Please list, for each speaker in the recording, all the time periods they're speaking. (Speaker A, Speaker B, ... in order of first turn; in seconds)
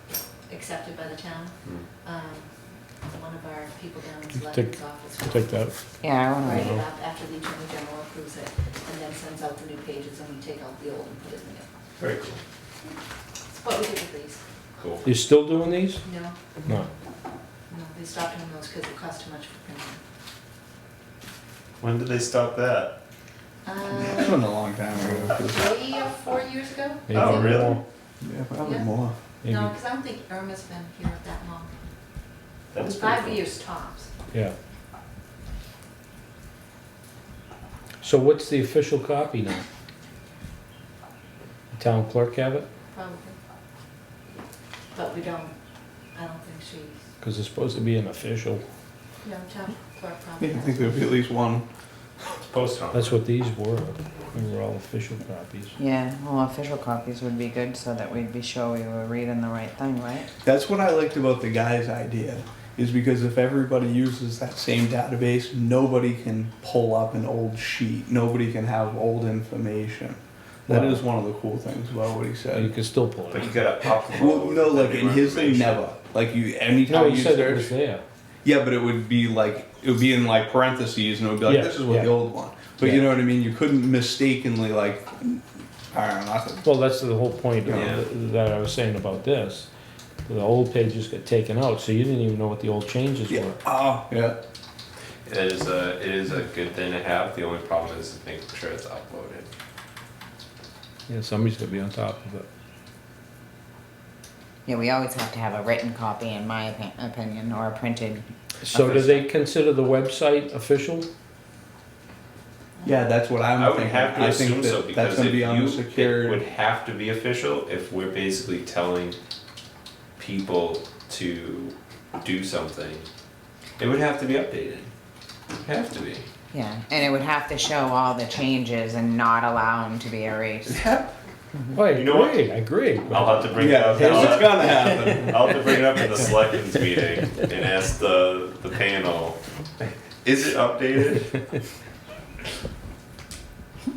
Speaker A: 0.5-1.5, 2.0-2.5, 3.1-5.5, 6.4-11.7, 13.5-14.4, 16.0-16.4, 17.7-20.0, 23.6-24.6, 25.3-27.7, 28.6-28.9, 29.4-31.7, 32.8-34.1, 42.9-43.3, 44.9-45.5, 46.1-47.0, 49.2-51.0
Speaker B: 4.4-5.7, 15.0-16.0, 27.1-27.8, 29.4-29.8, 38.0-39.6, 41.7-42.7, 47.2-48.6, 52.9-55.7, 70.7-71.0, 72.5-74.0, 76.8-78.0, 81.5-82.2, 82.8-83.1, 86.6-89.7, 90.2-93.6, 101.1-102.5, 108.6-111.1, 131.7-135.2
Speaker C: 6.0-6.8, 55.8-60.3, 104.7-108.9, 126.5-130.8
Speaker D: 12.0-12.4, 14.8-15.1, 21.8-22.9, 27.1-27.8, 32.7-33.5, 52.5-53.2, 73.3-75.8, 87.7-88.0, 95.2-99.5, 108.8-109.2, 113.6-119.2, 120.2-123.0, 123.8-124.9, 125.6-126.3, 131.9-132.4, 133.1-141.4
Speaker E: 23.9-25.7, 28.2-29.1, 50.4-51.7, 60.4-72.7, 74.1-77.7, 78.4-86.7, 87.7-88.0, 93.3-94.4, 112.8-116.4, 130.7-131.1, 133.6-135.5